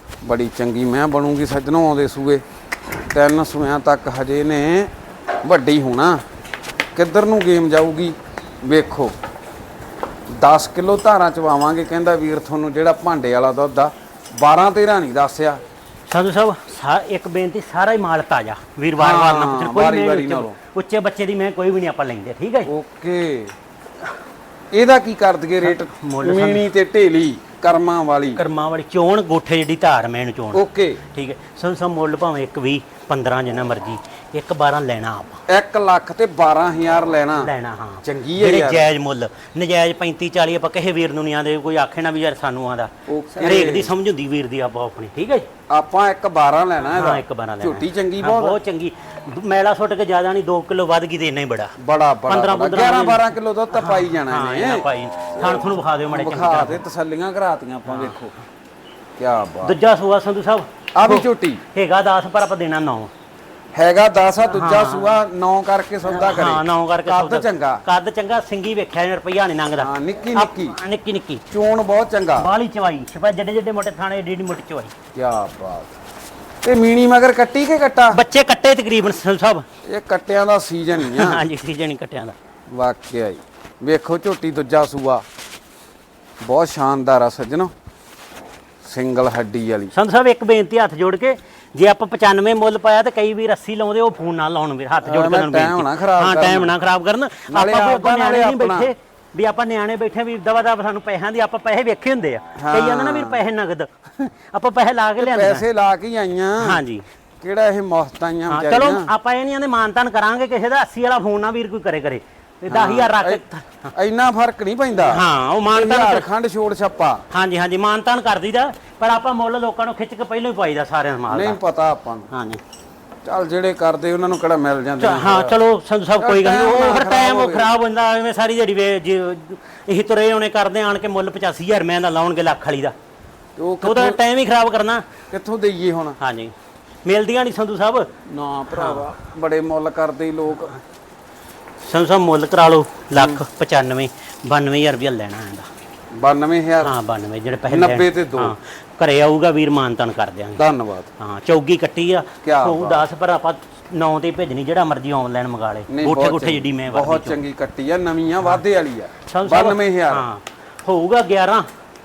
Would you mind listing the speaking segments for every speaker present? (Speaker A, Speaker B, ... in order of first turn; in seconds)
Speaker A: 0.2-2.4, 3.1-4.9, 5.4-6.2, 6.9-9.1, 10.3-15.6, 18.9-20.6, 22.7-23.5, 24.7-28.4, 30.5-31.0, 35.5-37.5, 38.0-38.9, 43.1-43.9, 45.7-48.6, 51.8-58.3, 59.2-59.8, 60.9-61.6, 63.7-67.8, 69.8-70.8, 71.5-72.5, 75.1-76.0, 76.6-78.2, 79.8-81.4, 82.7-85.2, 86.4-87.7, 88.8-89.9, 95.0-96.8, 97.5-98.9, 102.5-103.4, 105.2-106.8, 107.4-109.1, 112.7-113.4, 113.9-117.2, 121.3-122.3, 123.2-125.6, 126.2-127.8, 133.6-134.2, 135.3-136.2, 138.2-140.8, 143.1-143.4, 146.1-146.9, 147.7-148.5, 150.6-151.1, 152.4-153.1, 155.9-160.3
Speaker B: 16.1-22.7, 25.6-26.6, 28.4-35.4, 37.4-45.5, 46.9-51.7, 52.3-56.8, 57.9-58.1, 59.6-63.1, 64.4-65.2, 66.1-71.4, 72.4-74.9, 78.1-79.6, 81.0-82.3, 89.9-105.6, 106.6-107.0, 108.5-113.9, 115.0-116.3, 117.3-121.6, 122.3-122.6, 125.0-132.9, 133.8-135.0, 136.2-136.5, 137.0-138.1, 138.7-139.0, 141.8-145.7, 146.8-150.6, 151.2-157.4, 159.3-161.7